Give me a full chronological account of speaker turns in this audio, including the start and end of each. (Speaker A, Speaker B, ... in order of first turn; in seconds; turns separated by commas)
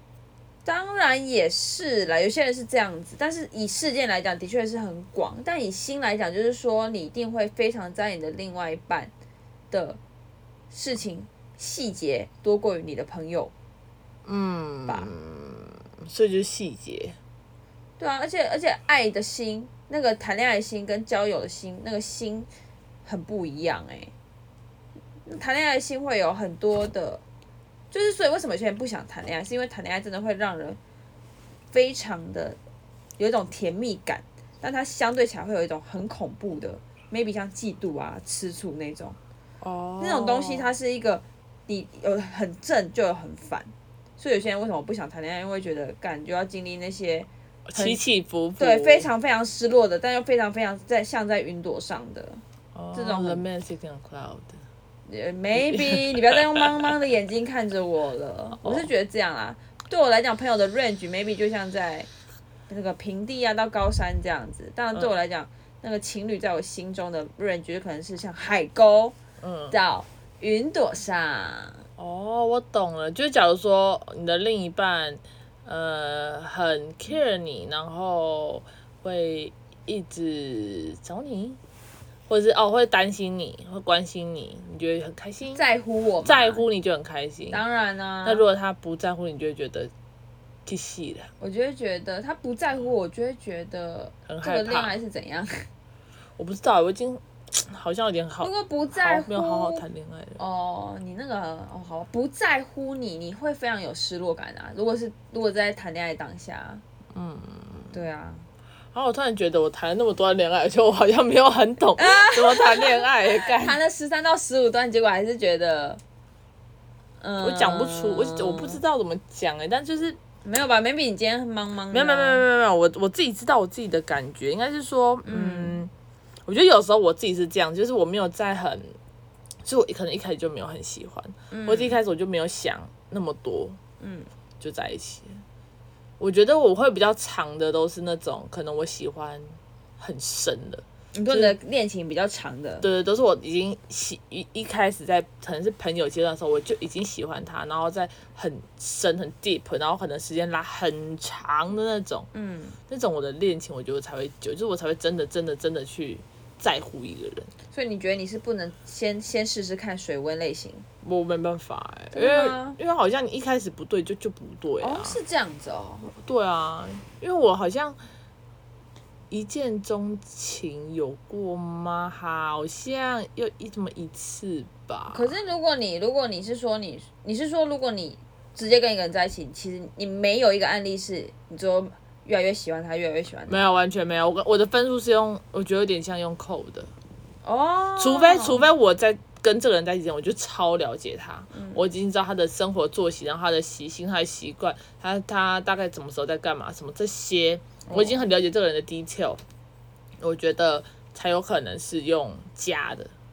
Speaker A: 0.7-9.1, Speaker A: 9.7-10.0, Speaker A: 10.7-13.5, Speaker B: 14.2-17.2, Speaker A: 14.9-15.1, Speaker A: 18.0-22.5, Speaker A: 23.1-24.1, Speaker A: 25.3-27.2, Speaker A: 27.9-30.8, Speaker A: 31.7-32.6, Speaker A: 33.2-39.2, Speaker B: 39.6-40.7, Speaker A: 40.0-48.0, Speaker B: 47.7-49.1, Speaker A: 48.6-52.4, Speaker B: 52.7-54.6, Speaker A: 52.9-53.5, Speaker A: 55.1-62.1, Speaker B: 55.5-56.7, Speaker B: 58.6-58.9, Speaker A: 62.7-69.2, Speaker B: 69.4-69.8, Speaker A: 69.7-71.8, Speaker B: 72.0-81.6, Speaker B: 82.3-85.6, Speaker A: 85.5-86.6, Speaker B: 86.2-87.6, Speaker A: 87.5-88.5, Speaker B: 88.2-89.9, Speaker B: 90.7-91.3, Speaker A: 91.4-95.7, Speaker B: 94.3-95.0, Speaker B: 96.4-100.4, Speaker A: 98.4-99.8, Speaker A: 100.4-106.8, Speaker B: 107.1-108.0, Speaker A: 107.9-108.5, Speaker B: 108.9-113.8, Speaker A: 112.0-116.0, Speaker A: 117.2-118.8, Speaker B: 117.4-120.2, Speaker A: 120.4-122.5, Speaker B: 121.9-125.9, Speaker A: 125.2-125.8, Speaker B: 126.5-129.0, Speaker B: 129.6-133.8, Speaker A: 131.5-132.0, Speaker A: 134.0-134.3, Speaker B: 134.6-135.4, Speaker B: 136.2-141.6, Speaker A: 141.1-142.9, Speaker B: 142.8-152.3, Speaker A: 152.3-152.8, Speaker B: 152.9-157.5, Speaker A: 157.7-160.9, Speaker B: 161.0-165.2, Speaker A: 162.1-162.8, Speaker A: 164.8-166.1, Speaker B: 166.0-168.0, Speaker B: 169.3-175.3, Speaker A: 175.1-183.7, Speaker B: 183.5-186.9, Speaker A: 187.4-188.7, Speaker B: 188.0-199.4, Speaker A: 191.5-191.8, Speaker A: 197.8-198.2, Speaker B: 200.2-203.1